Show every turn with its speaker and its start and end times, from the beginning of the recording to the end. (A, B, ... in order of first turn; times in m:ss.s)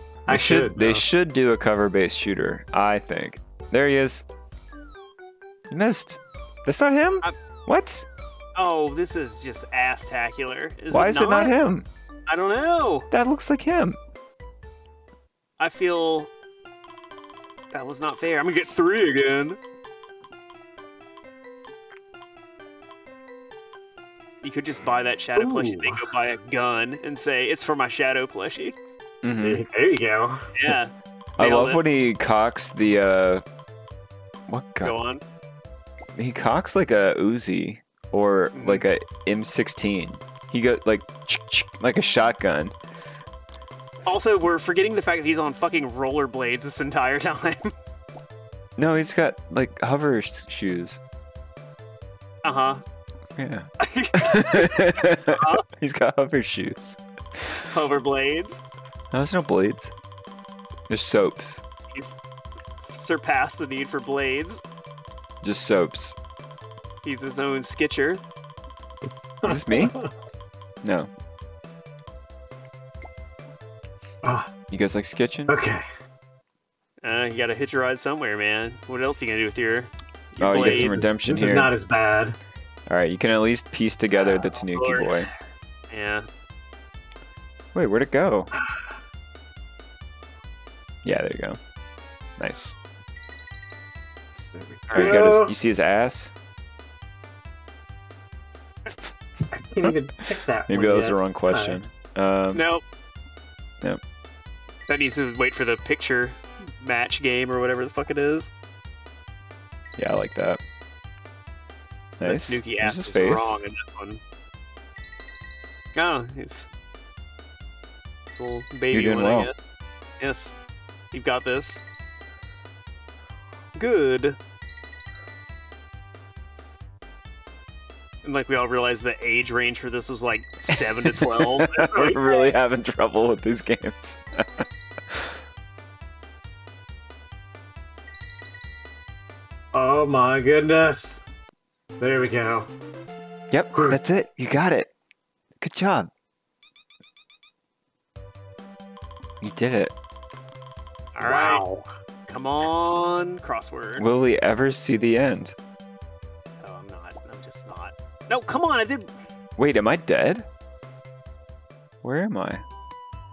0:00.3-0:04.2 A
0:00.3-0:01.0 B
0:05.7-0:08.1 A
0:08.5-0:11.5 C
0:10.9-0:11.9 A
0:12.3-0:13.1 C
0:13.1-0:14.0 A
0:15.6-0:16.3 C
0:17.7-0:19.6 C
0:24.4-0:28.8 C
0:25.3-0:26.1 B
0:29.2-0:29.6 A
0:29.4-0:30.5 B
0:30.5-0:31.8 C
0:31.4-0:33.4 A
0:34.5-0:34.9 A
0:34.8-0:35.2 C
0:36.1-0:42.8 A
0:38.5-0:38.8 C
0:44.0-0:47.7 C
0:48.8-0:51.0 A
0:52.4-0:52.8 C
0:53.4-0:57.7 A
0:53.8-0:55.6 C
0:57.6-0:58.6 C
0:59.1-0:59.9 A
1:00.9-1:01.6 A
1:02.9-1:04.6 C
1:05.4-1:06.2 A
1:07.0-1:08.2 C
1:09.4-1:10.1 B
1:09.4-1:09.9 A
1:10.8-1:11.1 A
1:14.2-1:14.5 B
1:14.7-1:15.6 A
1:15.5-1:15.8 B
1:17.0-1:21.0 C
1:20.4-1:21.7 A
1:20.4-1:22.4 B
1:22.9-1:25.3 A
1:24.3-1:25.3 C
1:25.9-1:26.3 C
1:27.7-1:28.5 A
1:28.6-1:28.9 B
1:31.0-1:31.6 A
1:32.4-1:32.8 A
1:34.5-1:35.5 B
1:34.9-1:35.2 C
1:34.9-1:36.3 A
1:39.5-1:41.8 B
1:40.7-1:42.6 A
1:42.5-1:42.8 C
1:44.9-1:48.5 C
1:50.0-1:50.6 A
1:52.2-1:54.2 C
1:52.2-1:53.6 A
1:55.9-1:56.7 C
1:58.3-1:59.5 C
1:58.9-1:59.5 A
2:00.2-2:00.6 C
2:01.1-2:01.8 C
2:03.8-2:04.4 C
2:08.2-2:12.5 C
2:10.7-2:15.4 A
2:19.7-2:21.2 B
2:22.0-2:22.7 B
2:23.5-2:24.9 A
2:23.7-2:24.0 B
2:25.6-2:26.1 A
2:29.4-2:29.9 A
2:31.1-2:31.6 C
2:31.2-2:31.9 B
2:32.3-2:34.0 C
2:34.0-2:35.6 A
2:36.6-2:39.1 C
2:39.6-2:40.5 A
2:42.0-2:42.6 A